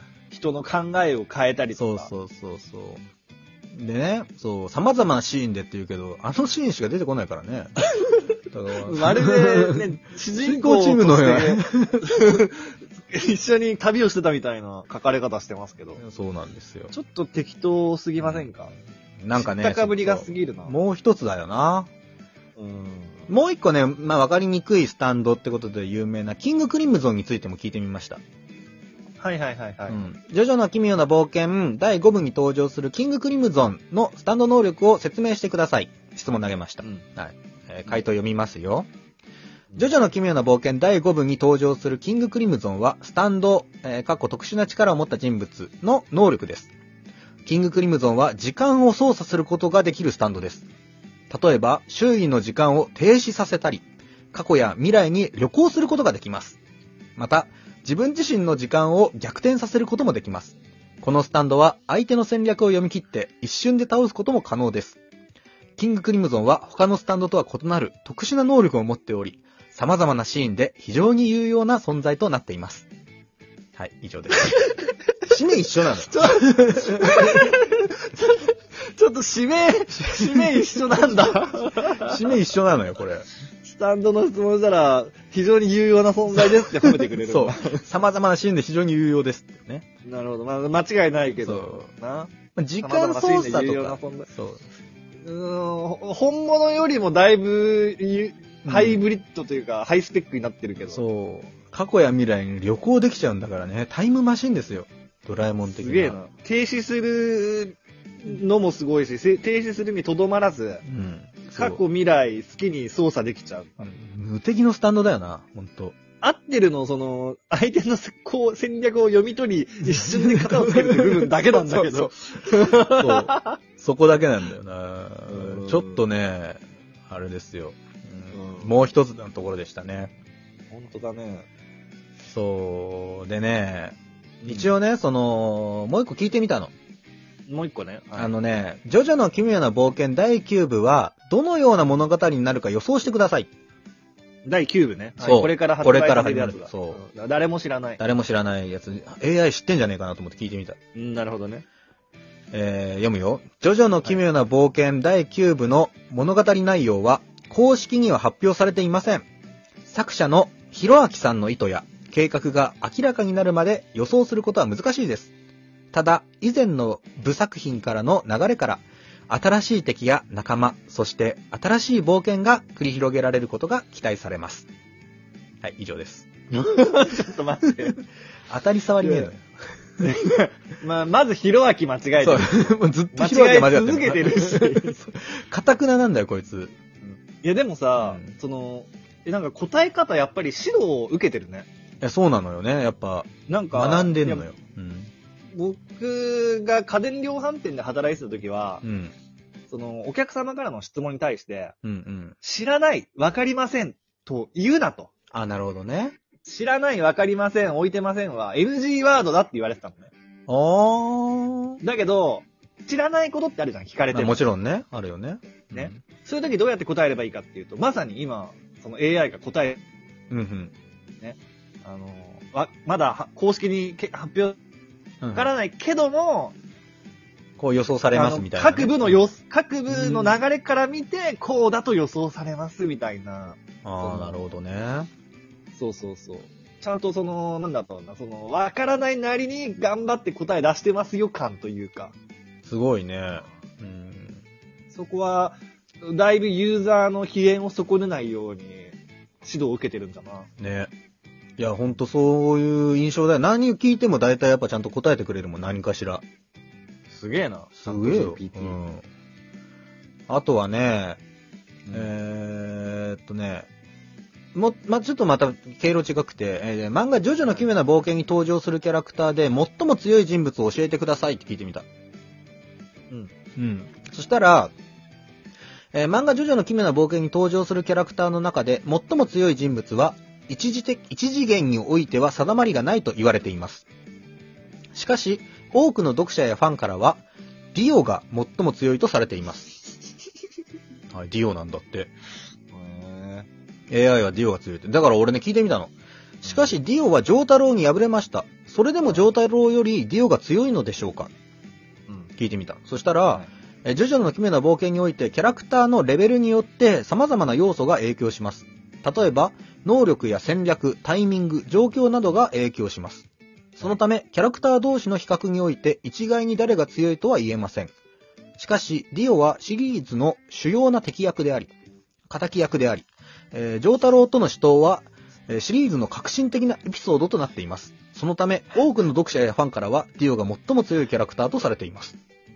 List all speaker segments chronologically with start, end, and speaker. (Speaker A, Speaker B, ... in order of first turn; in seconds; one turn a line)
Speaker A: 0.3-2.1
Speaker B: 1.7-3.0
Speaker B: 3.7-7.8
Speaker B: 8.5-9.8
Speaker A: 8.8-16.0
Speaker B: 10.3-12.1
Speaker B: 16.0-16.9
Speaker A: 16.9-18.7
Speaker B: 18.2-18.5
Speaker B: 19.2-21.9
Speaker A: 19.3-20.8
Speaker A: 22.6-23.3
Speaker B: 23.3-28.2
Speaker A: 29.2-30.0
Speaker B: 29.9-38.9
Speaker B: 39.8-46.7
Speaker B: 47.5-50.7
Speaker B: 51.3-56.6
Speaker B: 57.2-65.0
Speaker B: 65.8-72.9
Speaker B: 73.8-74.6
Speaker B: 75.2-77.3
Speaker A: 76.0-82.3
Speaker B: 80.0-80.5
Speaker B: 81.9-83.3
Speaker A: 83.6-87.8
Speaker B: 87.1-89.8
Speaker A: 90.0-94.3
Speaker B: 91.4-91.9
Speaker B: 92.5-94.6
Speaker A: 95.2-101.0
Speaker B: 98.6-99.0
Speaker B: 100.9-106.2
Speaker A: 105.7-110.8
Speaker B: 110.8-111.8
Speaker A: 111.5-113.9
Speaker B: 113.8-116.0
Speaker A: 116.2-123.5
Speaker B: 120.0-130.1
Speaker A: 125.3-126.0
Speaker A: 128.3-128.7
Speaker A: 130.7-131.4
Speaker B: 132.2-136.7
Speaker A: 134.4-134.7
Speaker A: 137.5-138.3
Speaker B: 138.2-143.5
Speaker A: 144.4-148.0
Speaker B: 145.2-147.0
Speaker B: 148.0-150.8
Speaker A: 150.9-151.6
Speaker B: 152.5-159.2
Speaker B: 159.9-165.3
Speaker B: 165.9-174.7
Speaker B: 175.6-176.5
Speaker A: 176.5-178.0
Speaker B: 178.5-179.4
Speaker A: 179.0-179.3
Speaker A: 180.0-184.9
Speaker B: 182.2-186.7
Speaker A: 187.1-191.7
Speaker B: 188.0-188.3
Speaker B: 192.0-195.1
Speaker A: 193.5-194.4
Speaker A: 195.5-198.8
Speaker B: 198.8-199.1
Speaker A: 199.7-201.7
Speaker B: 201.8-202.3
Speaker A: 202.4-205.1
Speaker B: 205.3-206.2
Speaker A: 206.4-210.1
Speaker B: 210.5-211.8
Speaker A: 211.8-214.4
Speaker B: 214.1-216.0
Speaker A: 215.7-219.8
Speaker B: 220.3-220.7
Speaker A: 221.2-224.6
Speaker B: 225.2-225.5
Speaker A: 225.3-226.5
Speaker B: 227.6-229.2
Speaker A: 228.1-234.5
Speaker B: 229.9-230.4
Speaker B: 233.8-235.1
Speaker A: 235.7-242.1
Speaker B: 242.6-244.4
Speaker A: 244.9-250.5
Speaker B: 250.6-250.9
Speaker B: 251.6-256.2
Speaker A: 257.1-258.8
Speaker B: 257.8-259.0
Speaker B: 260.3-261.2
Speaker A: 261.9-262.1
Speaker B: 261.9-263.7
Speaker B: 264.5-271.8
Speaker B: 273.6-274.7
Speaker B: 275.9-283.9
Speaker B: 284.9-287.2
Speaker B: 287.7-289.8
Speaker B: 291.1-292.1
Speaker A: 292.7-293.5
Speaker B: 293.9-301.3
Speaker A: 296.4-296.8
Speaker B: 302.4-317.9
Speaker B: 318.6-321.7
Speaker B: 322.3-332.2